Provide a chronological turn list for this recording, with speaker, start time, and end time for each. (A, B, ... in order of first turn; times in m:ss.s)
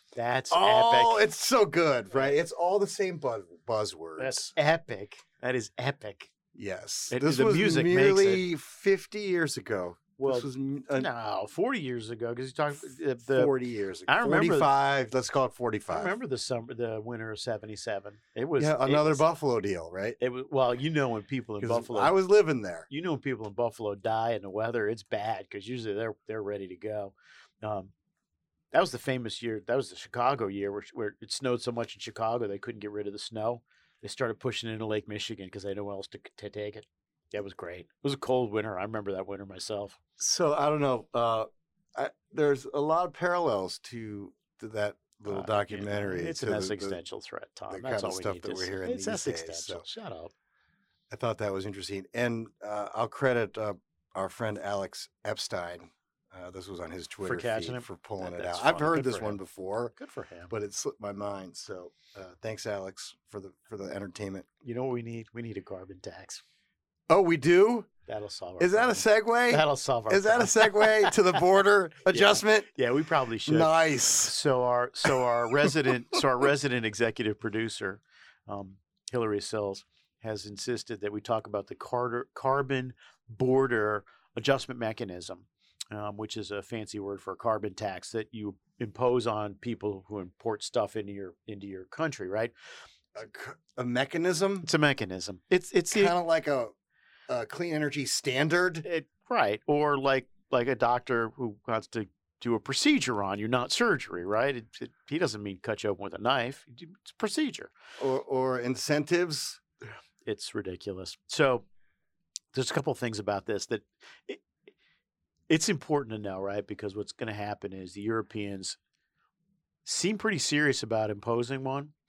0:00.2-0:01.2 A
0:00.5-0:04.5 B
0:02.1-0:02.4 A
0:04.2-0:06.3 A
0:06.5-0:11.1 B
0:07.1-0:08.4 A
0:10.2-0:13.5 A
0:13.2-0:16.1 B
0:14.1-0:14.7 A
0:15.9-0:19.2 A
0:18.6-0:20.2 B
0:20.2-0:22.2 A
0:21.6-0:22.9 B
0:22.9-0:27.9 A
0:28.7-0:40.0 A
0:40.2-0:47.0 B
0:45.3-0:50.3 A
0:47.7-0:49.8 B
0:51.1-0:59.9 B
0:57.2-0:59.4 A
1:00.0-1:00.5 A
1:00.5-1:04.5 B
1:04.6-1:06.4 A
1:07.1-1:07.9 B
1:08.1-1:11.4 A
1:08.6-1:12.7 B
1:12.1-1:32.5 A
1:13.5-1:14.4 B
1:15.0-1:15.8 B
1:33.1-1:34.7 B
1:34.6-1:36.2 A
1:35.9-1:36.7 B
1:37.3-1:38.8 B
1:38.8-1:47.7 A
1:48.0-1:49.6 B
1:50.2-1:51.6 A
1:52.5-1:54.5 A
1:55.5-1:58.8 A
1:59.8-2:01.9 A